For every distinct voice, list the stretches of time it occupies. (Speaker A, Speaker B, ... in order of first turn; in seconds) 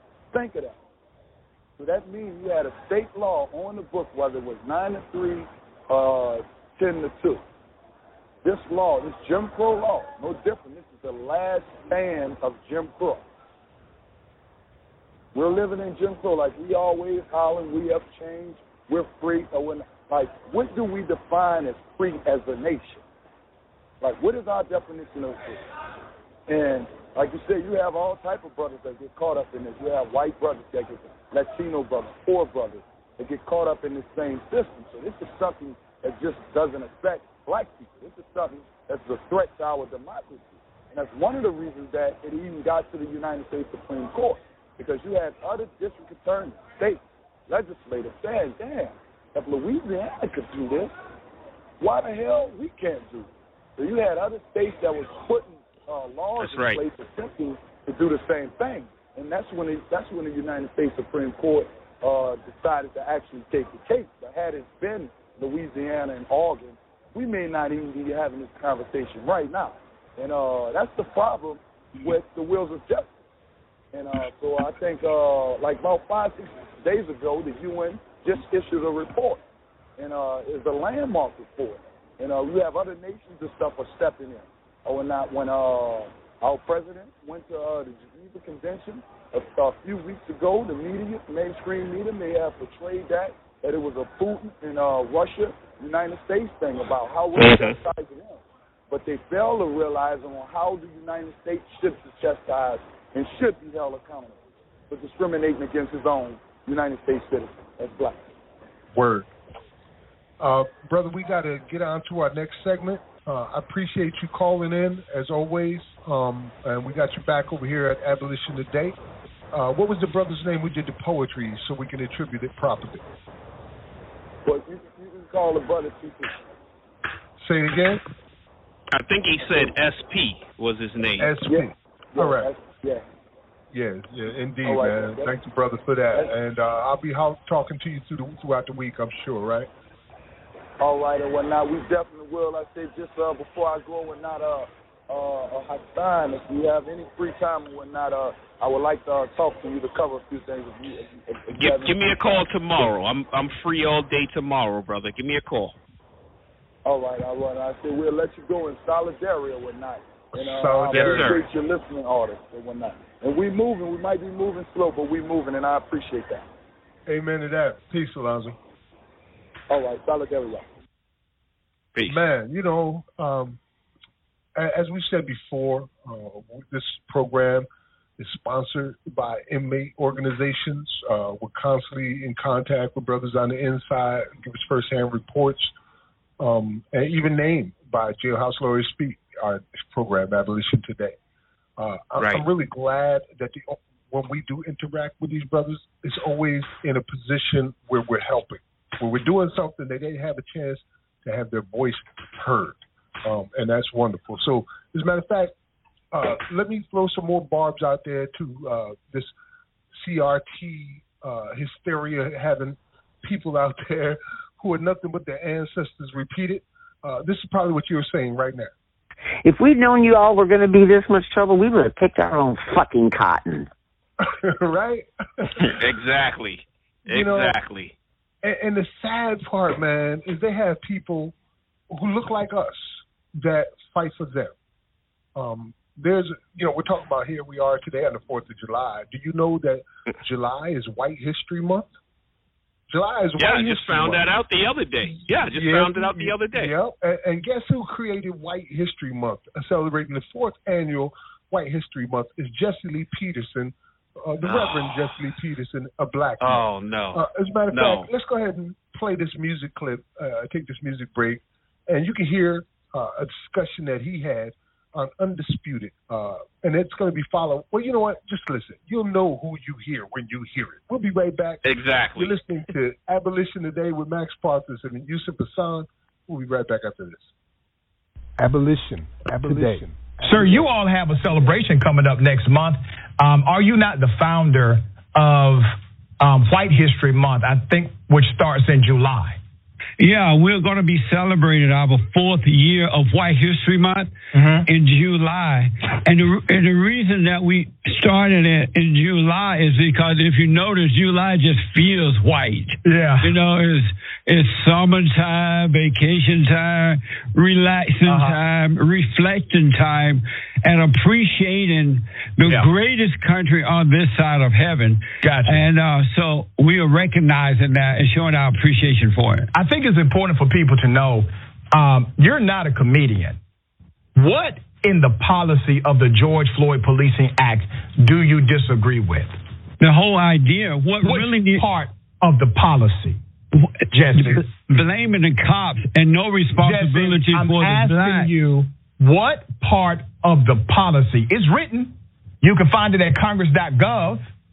Speaker A: 0.3-0.8, 1.8-7.4, 8.4-13.2, 15.3-23.0, 24.0-25.6, 26.5-50.9, 51.8-73.1, 73.9-79.4, 80.0-108.2, 124.4-126.4, 131.4-133.0, 134.6-135.3, 140.8-152.1, 156.8-166.4, 169.7-170.6
Speaker B: 56.4-56.8, 97.3-97.8, 128.9-131.3, 151.5-155.8, 160.9-161.5, 171.9-172.2, 192.2-192.4, 225.6-227.9, 243.4-246.7, 254.4-255.1, 256.4-258.1, 271.6-272.3
Speaker C: 108.9-109.3, 110.4-119.0, 119.5-123.0, 127.4-128.0, 131.2-132.5, 133.7-139.7, 160.4-161.4, 167.1-168.6, 172.0-173.6, 174.6-177.7, 178.2-185.7, 186.4-191.2, 191.8-205.5, 206.1-209.3, 209.9-218.7, 224.2-225.6, 227.1-227.6, 228.4-231.3, 231.9-234.5, 235.3-241.9, 242.9-244.3, 245.0-277.3
Speaker D: 219.4-223.7
Speaker E: 280.2-289.4, 294.3-294.7, 302.8-303.4, 308.0-308.4, 312.4-312.7, 315.2-315.7, 319.5-323.4, 324.1-329.3, 331.0-334.5, 336.6-344.3
Speaker F: 290.0-294.1, 294.6-319.5, 329.8-331.7, 334.1-338.3